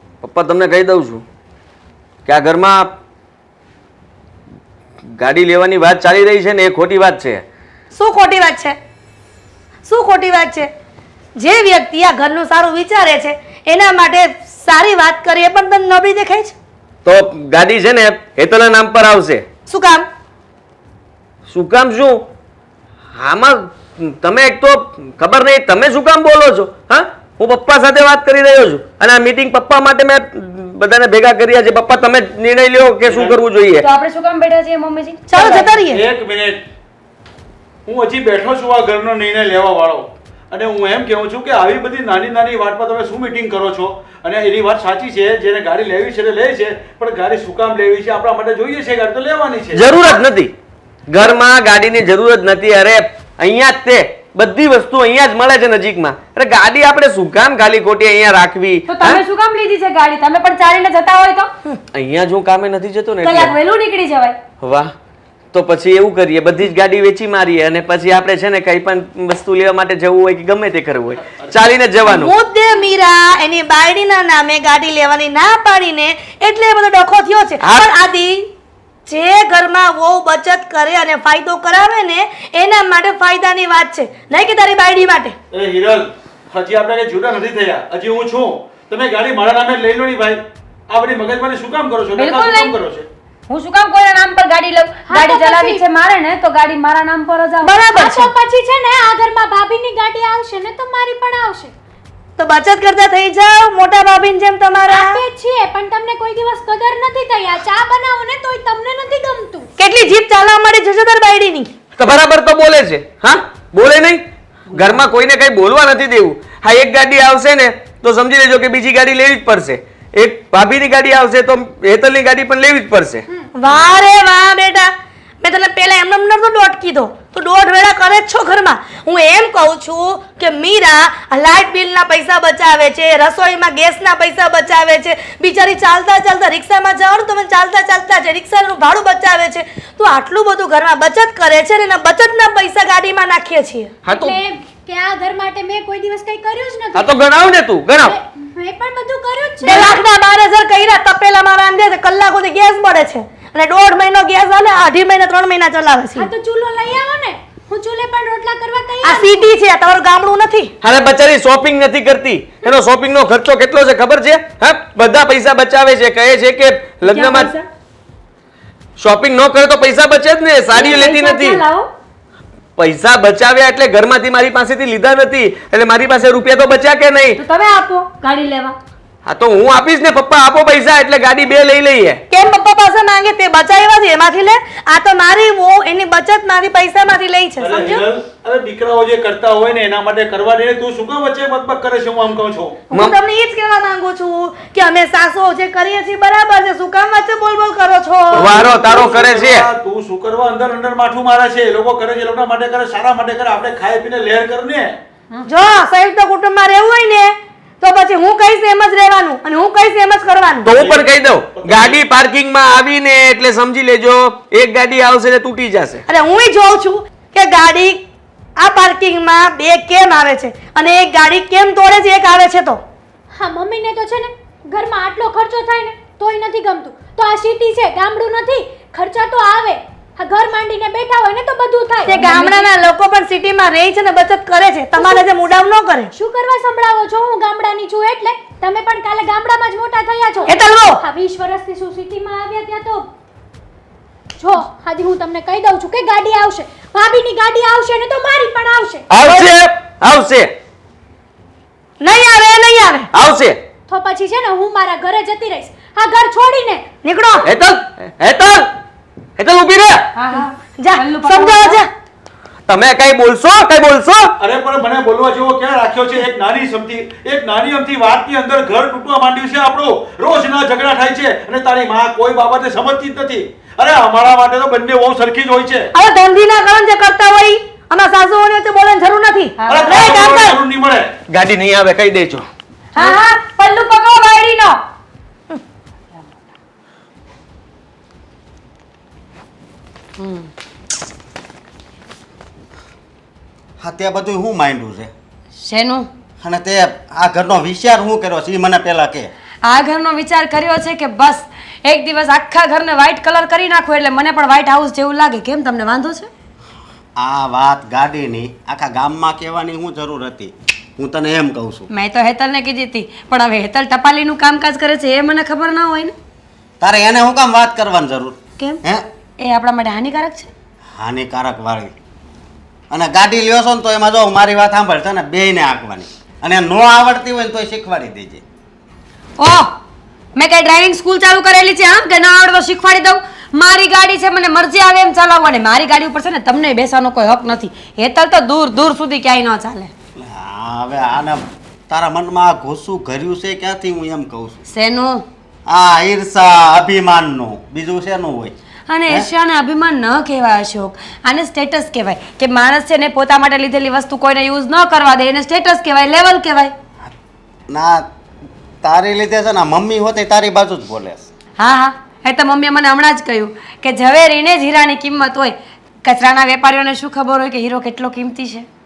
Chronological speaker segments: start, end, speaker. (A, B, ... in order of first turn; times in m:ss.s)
0:00.2-0:01.2 A
0:02.2-0:02.9 A
0:05.1-0:07.4 A
0:07.9-0:08.8 B
0:09.8-0:10.7 B
0:11.4-0:16.5 B
0:17.0-0:19.4 A
0:19.7-0:20.1 B
0:21.5-0:22.2 A
0:23.2-0:33.8 A
0:33.0-0:33.4 C
0:33.8-0:35.7 D
0:35.3-0:36.0 B
0:35.8-0:36.6 C
0:37.8-0:50.1 C
0:49.7-0:50.5 A
0:51.1-0:59.2 A
0:58.9-1:01.5 D
1:01.9-1:03.5 A
1:03.2-1:04.4 D
1:04.6-1:04.9 A
1:05.5-1:12.3 A
1:12.0-1:18.5 B
1:17.6-1:17.9 A
1:19.1-1:25.4 B
1:25.5-1:33.0 C
1:32.1-1:32.7 D
1:33.5-1:37.8 D
1:35.1-1:35.8 E
1:37.6-1:38.3 B
1:37.8-1:41.7 E
1:42.4-1:45.2 B
1:44.9-1:49.7 E
1:49.8-1:51.7 B
1:52.0-2:03.2 A
2:03.6-2:23.9 B
2:24.0-2:24.4 A
2:24.1-2:27.2 E
2:26.9-2:28.2 A
2:28.0-2:30.0 E
2:29.6-2:36.3 B
2:36.2-2:39.4 E
2:39.0-2:40.7 B
2:40.8-2:47.5 A
2:47.0-2:47.6 D
2:49.0-2:51.6 A
2:50.7-2:51.9 D
2:52.8-2:57.4 A
2:57.4-2:58.8 D
2:59.2-3:02.2 A
3:02.3-3:08.0 B
3:07.6-3:12.8 C
3:12.9-3:18.6 B
3:18.3-3:25.0 C
3:18.3-3:19.7 A
3:25.4-3:30.7 B
3:30.6-3:36.0 A
3:30.7-3:32.0 C
3:36.1-3:38.0 B
3:38.6-3:42.8 B
3:43.3-3:52.7 E
3:52.0-3:56.1 B
3:55.0-3:55.3 E
3:56.1-4:03.1 E
4:00.4-4:01.0 B
4:04.4-4:09.0 E
4:09.1-4:10.5 A
4:12.0-4:13.1 B
4:13.1-4:13.6 A
4:13.9-4:16.8 E
4:17.0-4:17.5 B
4:17.4-4:18.7 A
4:19.4-4:20.1 A
4:20.1-4:21.8 D
4:20.3-4:21.9 B
4:22.6-4:24.3 A
4:24.4-4:35.9 C
4:35.9-4:40.6 B
4:39.7-4:41.1 C
4:41.3-4:42.5 A
4:42.9-4:44.8 D
4:50.2-4:50.5 D
4:53.8-4:55.1 F
4:55.6-4:56.1 D
4:56.4-4:59.3 F
4:59.6-5:06.3 D
5:07.2-5:11.9 F
5:11.9-5:16.1 D
5:16.8-5:19.0 F
5:19.4-5:20.5 D
5:20.9-5:21.9 F
5:22.9-5:28.4 F
5:29.4-5:29.8 D
5:30.4-5:39.9 D
5:40.1-5:44.6 F
5:44.7-5:45.2 D
5:45.7-5:48.5 F
5:48.9-5:56.7 D
5:57.7-5:58.1 F
5:58.8-6:01.3 F
6:01.6-6:08.7 D